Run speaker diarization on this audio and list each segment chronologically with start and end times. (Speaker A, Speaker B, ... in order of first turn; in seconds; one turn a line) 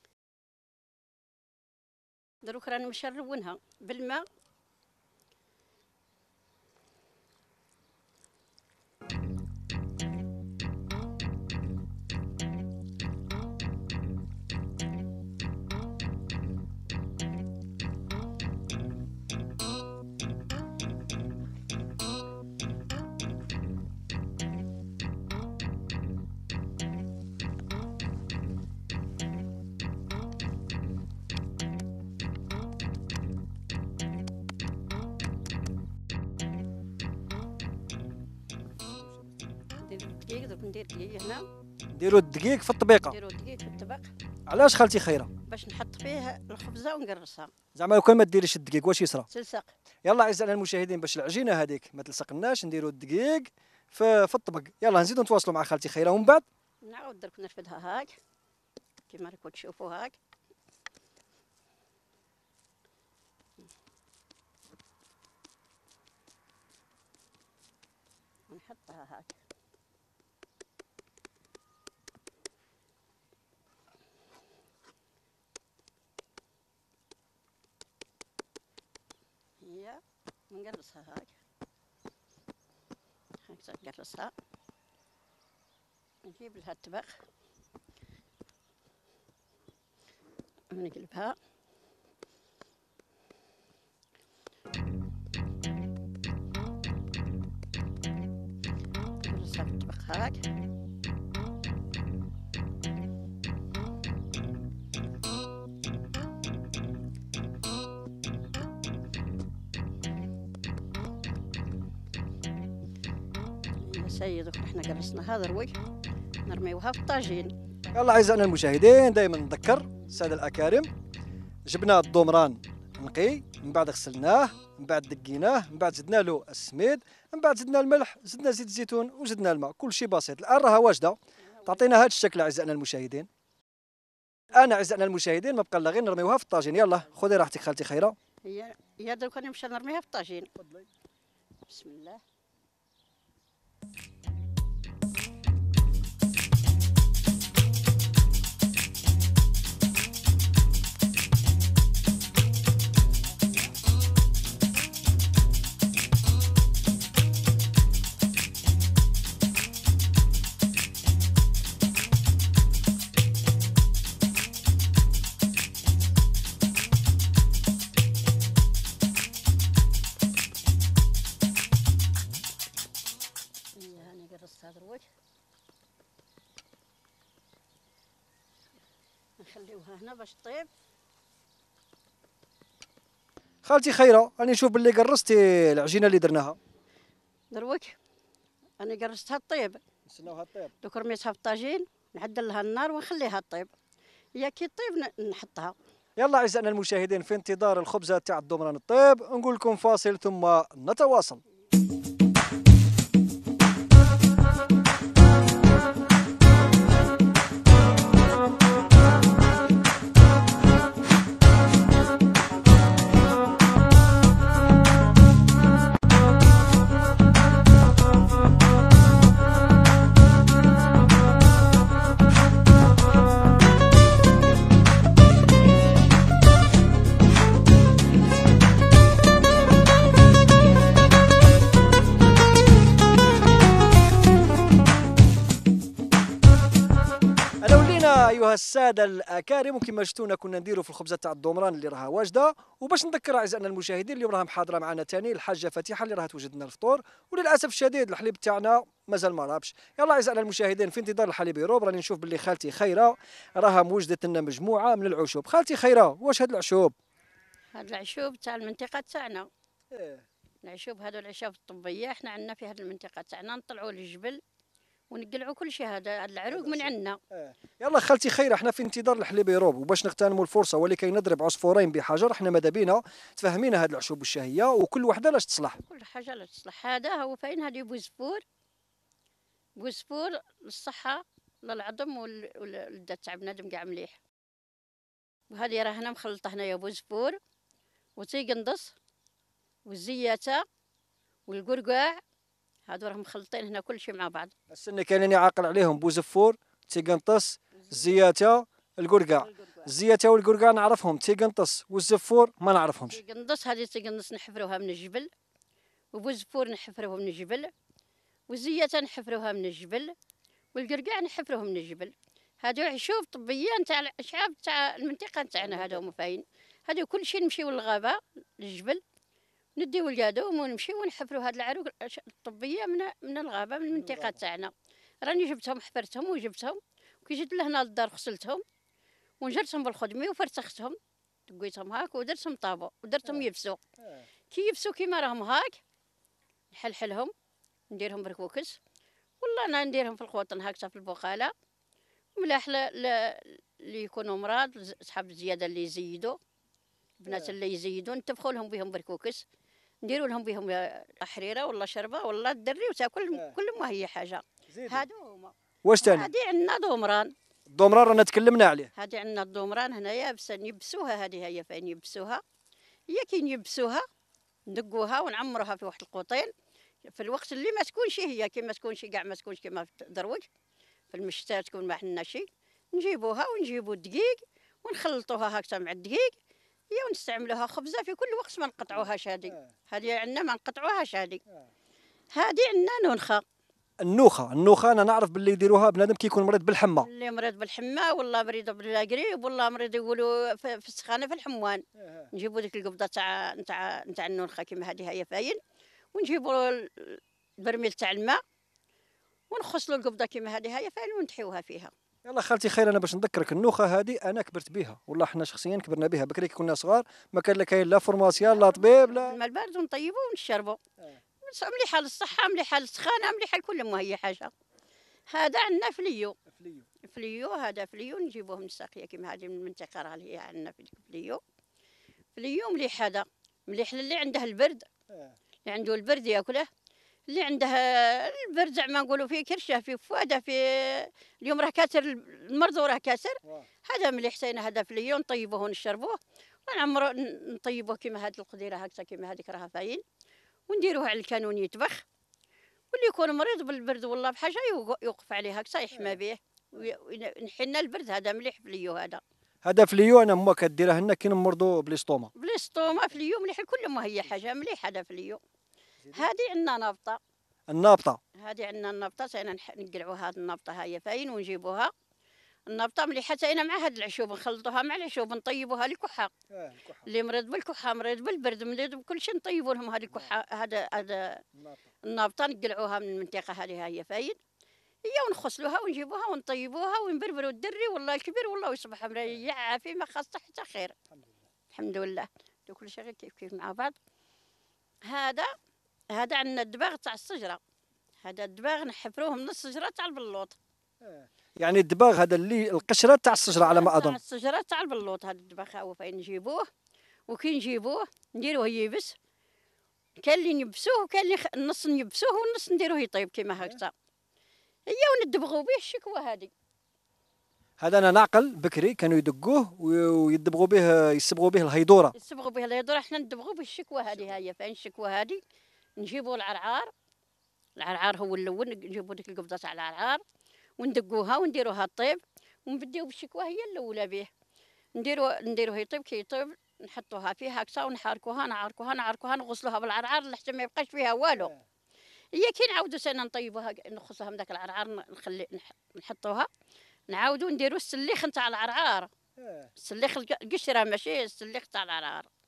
Speaker A: 2.4-4.2
Speaker A: 39.9-41.5
Speaker B: 41.9-43.1
Speaker A: 43.1-44.1
Speaker B: 44.5-45.3
Speaker A: 45.5-47.5
Speaker B: 47.7-49.3
Speaker A: 49.3-49.7
Speaker B: 50.0-56.4
Speaker A: 56.8-58.1
Speaker A: 59.1-60.1
Speaker A: 68.5-69.3
Speaker A: 79.6-81.4
Speaker A: 83.5-84.3
Speaker A: 86.2-87.2
Speaker A: 90.7-91.3
Speaker A: 99.2-100.4
Speaker A: 113.8-115.7
Speaker A: 116.5-117.5
Speaker B: 117.9-120.9
Speaker B: 121.7-131.2
Speaker A: 131.4-131.9
Speaker B: 131.7-133.3
Speaker B: 134.5-138.1
Speaker A: 138.4-140.5
Speaker B: 140.6-140.9
Speaker A: 141.7-142.2
Speaker A: 173.8-175.1
Speaker A: 179.4-180.7
Speaker B: 183.6-186.6
Speaker A: 187.5-188.0
Speaker A: 188.8-189.8
Speaker B: 190.1-190.7
Speaker A: 190.8-193.7
Speaker A: 194.3-195.7
Speaker B: 196.2-201.4
Speaker B: 237.6-256.9
Speaker A: 257.7-259.5
Speaker B: 259.9-260.2
Speaker A: 260.6-264.4
Speaker A: 265.1-267.2
Speaker B: 266.5-275.8
Speaker A: 275.7-278.4
Speaker A: 279.8-284.2
Speaker A: 285.5-287.4
Speaker A: 288.2-288.9
Speaker A: 289.9-290.6
Speaker A: 291.5-292.2
Speaker A: 292.9-294.5
Speaker B: 294.7-303.2
Speaker A: 297.7-298.2
Speaker A: 299.4-299.9
Speaker A: 303.1-305.3
Speaker A: 306.1-307.7
Speaker A: 308.5-310.1
Speaker A: 310.7-319.0
Speaker B: 315.6-316.1
Speaker A: 319.8-328.6
Speaker B: 323.9-324.4
Speaker A: 329.4-333.8
Speaker B: 334.0-334.2
Speaker A: 334.5-335.8
Speaker A: 336.7-337.3
Speaker A: 337.9-338.8
Speaker A: 339.4-341.5
Speaker A: 342.4-346.4
Speaker A: 347.2-349.4
Speaker B: 347.3-347.5
Speaker A: 350.0-357.3
Speaker B: 354.7-355.0
Speaker B: 355.8-356.3
Speaker B: 357.7-358.9
Speaker A: 358.9-362.4
Speaker A: 363.1-364.1
Speaker A: 364.7-366.5
Speaker A: 367.1-370.4
Speaker A: 371.1-376.3
Speaker A: 376.9-381.4
Speaker A: 382.3-383.4
Speaker B: 384.0-387.1
Speaker A: 387.0-395.6
Speaker B: 392.0-392.3
Speaker A: 396.1-398.4
Speaker A: 399.5-401.9
Speaker B: 402.2-409.3
Speaker A: 408.4-410.8
Speaker A: 411.4-414.5
Speaker A: 415.3-416.4
Speaker B: 416.5-416.9
Speaker A: 417.0-421.4
Speaker A: 422.3-424.9
Speaker B: 425.1-425.4
Speaker A: 425.6-426.7
Speaker A: 427.3-440.0
Speaker A: 440.7-442.0
Speaker A: 442.9-449.2
Speaker B: 449.6-452.3
Speaker A: 452.4-455.4
Speaker A: 456.1-457.2
Speaker B: 457.7-458.2
Speaker A: 458.4-461.9
Speaker A: 462.7-466.3
Speaker B: 466.5-467.1
Speaker A: 467.1-471.4
Speaker B: 471.6-471.8
Speaker A: 472.0-474.4
Speaker A: 475.1-480.9
Speaker B: 481.1-481.4
Speaker A: 481.7-483.9
Speaker A: 485.1-485.5
Speaker A: 486.1-487.6
Speaker A: 488.2-490.6
Speaker B: 491.0-494.2
Speaker A: 493.4-496.7
Speaker A: 497.3-499.1
Speaker A: 500.2-503.9
Speaker A: 504.9-506.5
Speaker B: 507.8-512.1
Speaker A: 512.1-515.4
Speaker A: 516.0-516.9
Speaker A: 517.8-520.2
Speaker A: 520.8-524.3
Speaker A: 525.0-531.5
Speaker B: 531.4-531.6
Speaker A: 532.3-536.5
Speaker A: 537.1-539.1
Speaker B: 539.4-539.7
Speaker A: 539.8-542.3